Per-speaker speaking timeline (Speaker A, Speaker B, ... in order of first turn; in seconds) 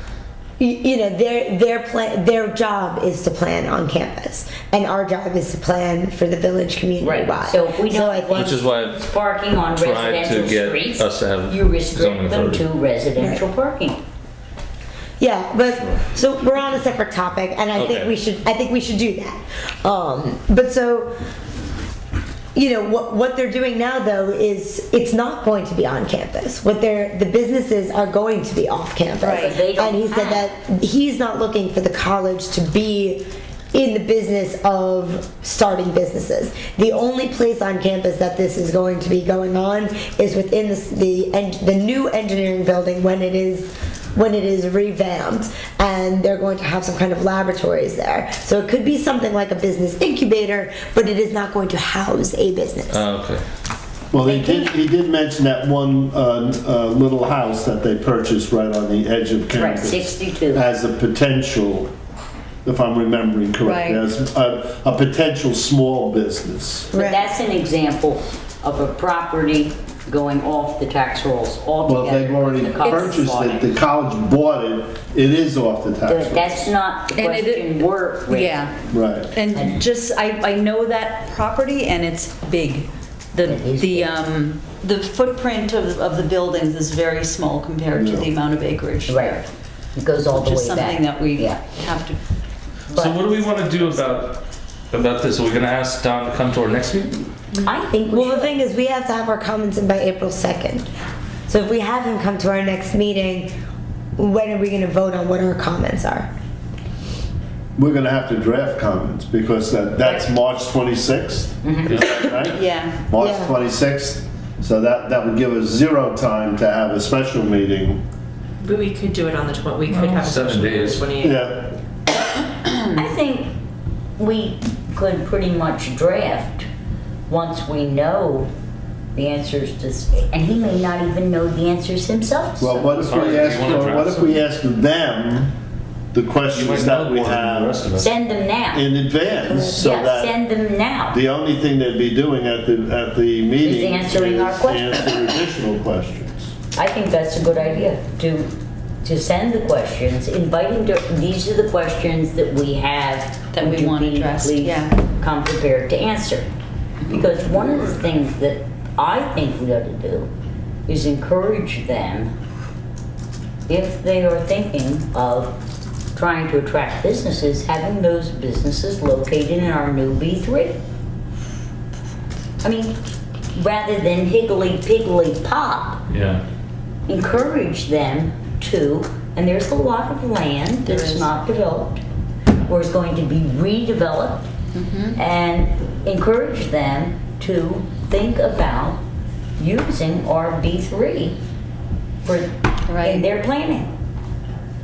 Speaker A: 0.6-8.5, 13.2-13.4, 15.2-21.1, 22.5-53.0, 66.9-67.3, 98.1-100.8, 101.5-103.5, 104.2-106.3, 113.2-113.5
Speaker B: 7.0-14.0, 29.3-30.4, 54.2-54.8, 59.5-60.6, 66.9-73.7, 76.1-78.7, 79.5-79.8, 83.4-84.2, 89.1-89.4, 90.0-91.6, 92.9-93.2, 97.6-98.6, 110.0-110.3, 111.6-112.0, 122.9-123.5, 124.2-126.7, 127.3-128.5, 129.1-133.9, 137.9-138.9, 139.5-141.2, 143.6-145.4, 146.7-156.5, 157.1-160.3, 160.9-162.3, 163.7-165.6, 166.1-170.8, 172.6-173.0, 173.5-176.0, 177.1-182.0, 182.7-184.5, 185.1-189.0, 189.6-191.4, 192.2-193.9
Speaker C: 8.3-9.0, 9.7-12.6, 17.7-18.1, 52.9-53.4, 92.9-97.2, 119.9-121.1, 133.0-134.4, 136.5-138.1, 176.1-176.4
Speaker D: 29.2-29.6, 63.6-64.0, 72.8-73.1, 77.1-78.8, 79.3-89.5, 90.2-92.2, 93.3-93.9, 112.5-113.0, 153.5-155.0, 180.8-181.3, 184.7-185.2, 192.9-193.3
Speaker E: 54.1-61.9, 62.6-66.9, 71.8-76.7, 78.9-79.3, 87.9-88.3, 107.8-118.0, 121.1-121.7, 132.6-135.5, 136.1-137.8, 138.7-140.4, 141.1-146.5
Speaker F: 118.7-121.3